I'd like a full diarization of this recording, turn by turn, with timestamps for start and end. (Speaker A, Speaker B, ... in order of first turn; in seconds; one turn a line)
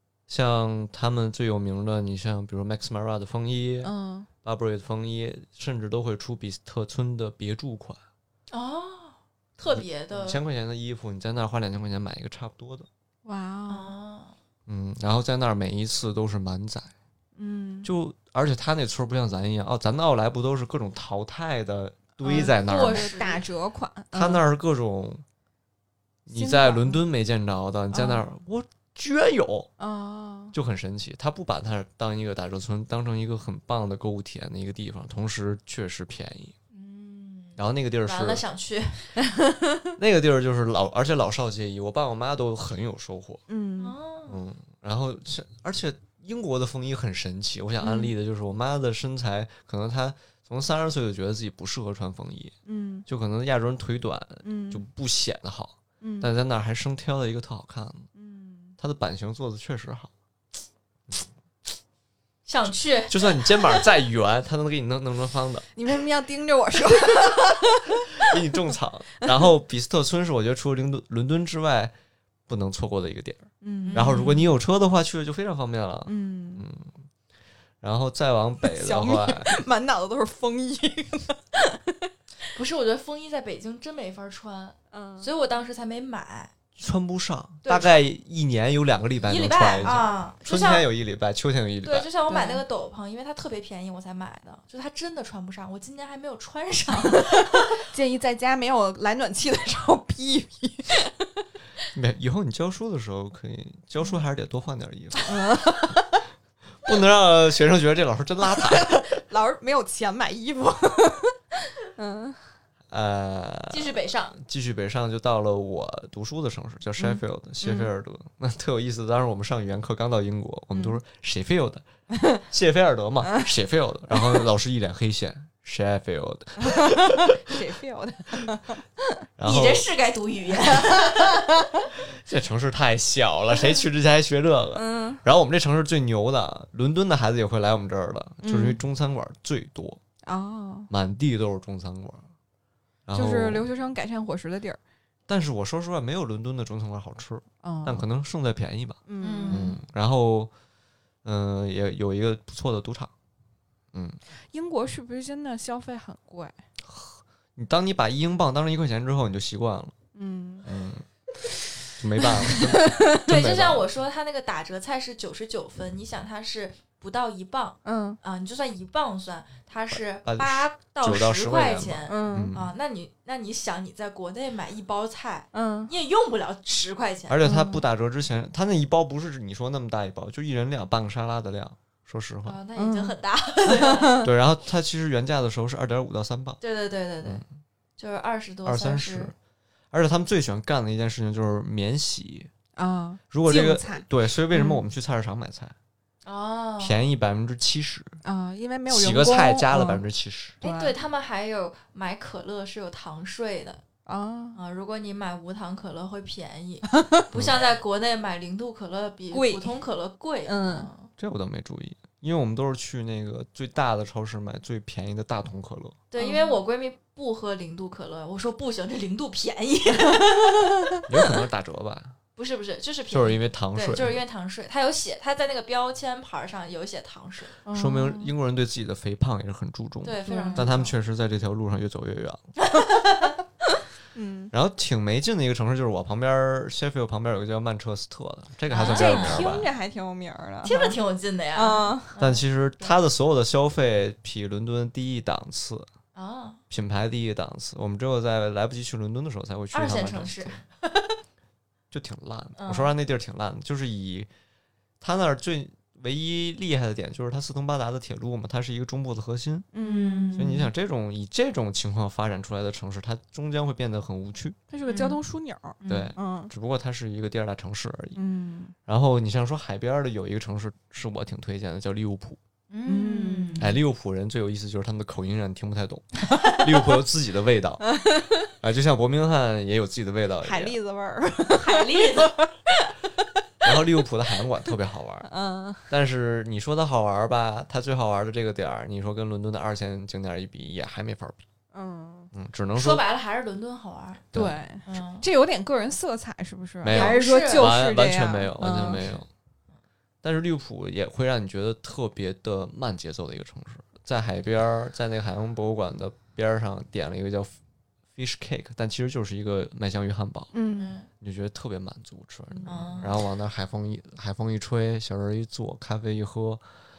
Speaker A: 0.3-3.9
Speaker B: 3.8-4.3
Speaker A: 4.4-8.0
Speaker C: 8.5-10.4
Speaker A: 9.7-12.9
Speaker B: 13.2-13.9
Speaker C: 13.7-14.3
Speaker A: 14.7-16.9
Speaker B: 17.4-17.9
Speaker A: 17.8-23.1
Speaker B: 22.2-24.4
Speaker C: 22.2-23.4
Speaker A: 24.1-25.2
Speaker A: 26.3-29.7
Speaker B: 26.3-27.0
Speaker B: 27.9-28.2
Speaker B: 29.8-30.5
Speaker A: 30.5-36.5
Speaker C: 36.7-39.1
Speaker A: 37.6-38.4
Speaker B: 39.2-39.9
Speaker A: 40.0-43.4
Speaker B: 43.5-44.0
Speaker C: 43.8-44.4
Speaker A: 44.3-52.5
Speaker B: 47.8-48.1
Speaker B: 52.6-53.0
Speaker A: 53.1-58.1
Speaker B: 54.4-54.8
Speaker B: 56.0-56.3
Speaker B: 58.1-58.8
Speaker A: 58.8-60.1
Speaker C: 62.5-63.8
Speaker A: 63.1-65.7
Speaker B: 65.8-68.4
Speaker A: 68.2-71.9
Speaker B: 69.2-69.5
Speaker A: 72.5-76.9
Speaker B: 73.6-74.4
Speaker C: 73.8-74.5
Speaker B: 76.0-76.7
Speaker A: 77.8-79.5
Speaker B: 78.7-82.1
Speaker C: 82.5-86.5
Speaker B: 84.9-85.3
Speaker A: 86.8-92.1
Speaker C: 87.6-88.0
Speaker C: 89.2-90.9
Speaker C: 91.8-97.8
Speaker B: 92.3-92.6
Speaker B: 97.5-101.3
Speaker A: 101.9-105.3
Speaker B: 105.2-106.2
Speaker A: 106.8-109.2
Speaker B: 108.5-112.4
Speaker A: 112.9-121.8
Speaker C: 113.7-114.4
Speaker B: 117.0-117.9
Speaker B: 122.1-122.4
Speaker A: 122.4-127.6
Speaker B: 124.2-124.4
Speaker B: 126.6-129.2
Speaker A: 129.4-129.9
Speaker C: 129.4-131.6
Speaker B: 130.8-131.8
Speaker A: 132.0-140.0
Speaker B: 134.7-135.2
Speaker B: 138.4-138.8
Speaker B: 140.2-140.9
Speaker A: 140.9-142.3
Speaker A: 143.1-143.7
Speaker B: 143.1-144.8
Speaker A: 145.3-150.5
Speaker B: 147.6-148.0
Speaker B: 149.1-149.7
Speaker C: 149.2-149.8
Speaker A: 151.2-153.1
Speaker A: 153.9-154.2
Speaker B: 154.5-156.6
Speaker A: 156.8-159.9
Speaker B: 160.1-160.7
Speaker A: 160.6-161.0
Speaker A: 161.9-163.9
Speaker B: 162.2-163.2
Speaker C: 163.2-177.4
Speaker B: 167.8-168.2
Speaker A: 169.9-172.7
Speaker B: 172.1-172.5
Speaker B: 175.5-175.9
Speaker A: 177.3-182.6
Speaker B: 177.4-177.8
Speaker C: 182.4-184.3
Speaker B: 182.8-183.1
Speaker B: 183.7-184.3
Speaker A: 184.2-186.6
Speaker C: 186.6-187.4
Speaker C: 188.0-189.3
Speaker A: 188.6-189.3
Speaker A: 189.9-192.5
Speaker B: 192.8-194.8
Speaker A: 193.3-195.7
Speaker C: 196.2-197.0
Speaker A: 196.8-198.2
Speaker B: 198.2-200.0
Speaker A: 198.9-200.6
Speaker B: 200.6-200.9
Speaker C: 200.6-203.8
Speaker B: 204.1-204.6
Speaker C: 204.6-211.1
Speaker B: 206.9-207.2
Speaker A: 207.3-207.6
Speaker B: 209.3-209.7
Speaker B: 210.4-210.9
Speaker A: 211.2-216.0
Speaker C: 216.1-221.1
Speaker B: 216.2-216.6
Speaker A: 221.1-222.2
Speaker C: 222.3-227.5
Speaker A: 223.1-224.2
Speaker B: 227.6-228.3
Speaker A: 227.7-232.4
Speaker C: 230.0-230.9
Speaker B: 230.2-230.7
Speaker C: 232.6-233.4
Speaker B: 234.1-234.5
Speaker A: 234.5-239.7
Speaker C: 238.7-239.5
Speaker B: 238.8-241.0
Speaker C: 240.6-242.9
Speaker B: 241.5-242.1
Speaker A: 242.2-245.9
Speaker C: 246.1-246.6
Speaker A: 246.7-250.6
Speaker C: 249.7-251.2
Speaker A: 251.9-254.3
Speaker C: 252.6-252.9
Speaker A: 255.0-259.7
Speaker B: 259.7-260.7
Speaker C: 259.8-260.5
Speaker A: 260.4-264.6
Speaker B: 264.7-266.5
Speaker C: 264.9-265.2
Speaker C: 265.8-266.1
Speaker A: 265.9-268.2
Speaker B: 268.1-268.7
Speaker A: 268.9-272.4
Speaker C: 272.7-273.7
Speaker B: 272.9-273.7
Speaker A: 273.6-277.9
Speaker C: 276.3-276.6
Speaker B: 277.8-278.5
Speaker A: 278.6-280.8
Speaker B: 280.4-283.8
Speaker C: 281.5-282.3
Speaker A: 283.6-285.3
Speaker B: 285.2-285.9
Speaker A: 285.9-291.4
Speaker B: 291.7-292.3
Speaker A: 292.3-293.0
Speaker C: 292.7-294.2
Speaker A: 294.3-294.6
Speaker B: 294.3-299.1
Speaker C: 294.9-295.2
Speaker A: 296.8-299.3
Speaker C: 296.9-297.7
Speaker A: 300.2-307.5
Speaker A: 308.1-310.5
Speaker B: 310.5-310.9
Speaker C: 310.7-311.1
Speaker A: 311.2-316.6
Speaker B: 312.5-312.8
Speaker C: 312.6-313.1